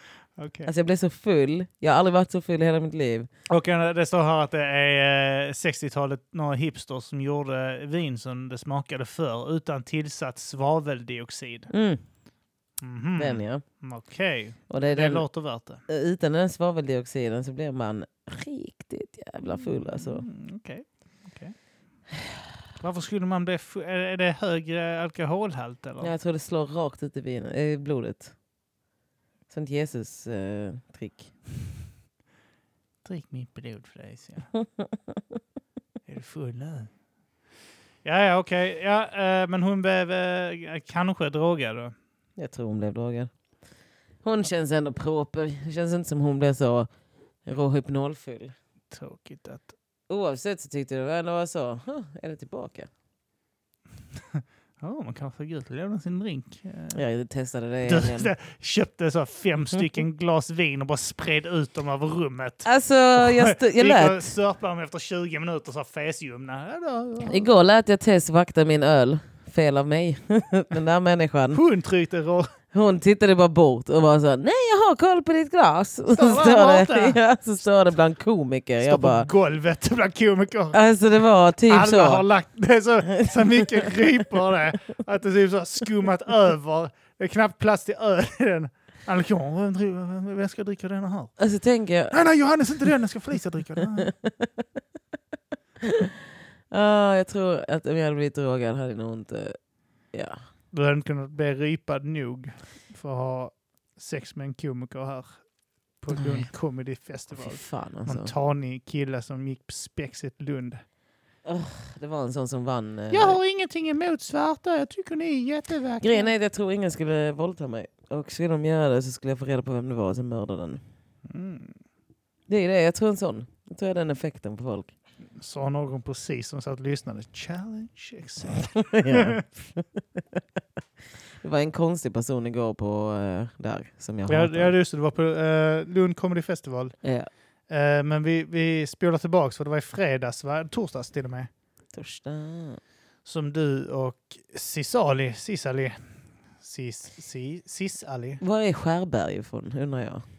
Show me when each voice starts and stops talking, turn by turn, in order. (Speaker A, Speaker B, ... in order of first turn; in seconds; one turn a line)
Speaker A: 0.4-0.7
Speaker B: 0.7-3.3
Speaker A: 3.5-11.7
Speaker B: 11.7-12.0
Speaker A: 12.8-15.8
Speaker B: 13.2-13.6
Speaker B: 14.7-15.2
Speaker B: 15.8-20.2
Speaker A: 19.5-21.5
Speaker A: 22.8-26.1
Speaker B: 26.0-28.3
Speaker B: 29.5-31.3
Speaker A: 33.0-34.5
Speaker B: 34.5-35.1
Speaker A: 36.0-36.9
Speaker A: 38.0-41.9
Speaker B: 42.4-43.3
Speaker B: 44.2-46.9
Speaker B: 47.5-48.5
Speaker A: 48.9-49.7
Speaker B: 50.1-52.9
Speaker A: 54.3-57.0
Speaker B: 56.9-58.3
Speaker A: 57.8-67.5
Speaker B: 62.6-64.3
Speaker B: 67.3-71.6
Speaker A: 71.5-72.5
Speaker B: 72.7-79.3
Speaker A: 76.1-77.2
Speaker A: 78.8-80.8
Speaker B: 80.7-82.2
Speaker A: 81.7-91.3
Speaker B: 83.1-83.9
Speaker B: 91.4-92.2
Speaker A: 92.1-94.1
Speaker B: 94.0-94.6
Speaker B: 95.8-96.1
Speaker B: 96.7-99.6
Speaker B: 100.1-100.4
Speaker A: 100.7-105.4
Speaker A: 106.0-110.8
Speaker B: 106.1-106.5
Speaker B: 107.3-108.3
Speaker B: 111.4-113.4
Speaker A: 113.1-116.3
Speaker B: 116.0-120.8
Speaker A: 121.3-121.8
Speaker B: 122.5-124.9
Speaker A: 125.3-129.4
Speaker B: 128.7-130.4
Speaker B: 131.4-134.7
Speaker A: 134.3-136.9
Speaker B: 137.0-137.3
Speaker A: 137.7-141.5
Speaker B: 141.9-142.8
Speaker A: 143.2-146.1
Speaker A: 146.6-148.4
Speaker B: 148.4-150.2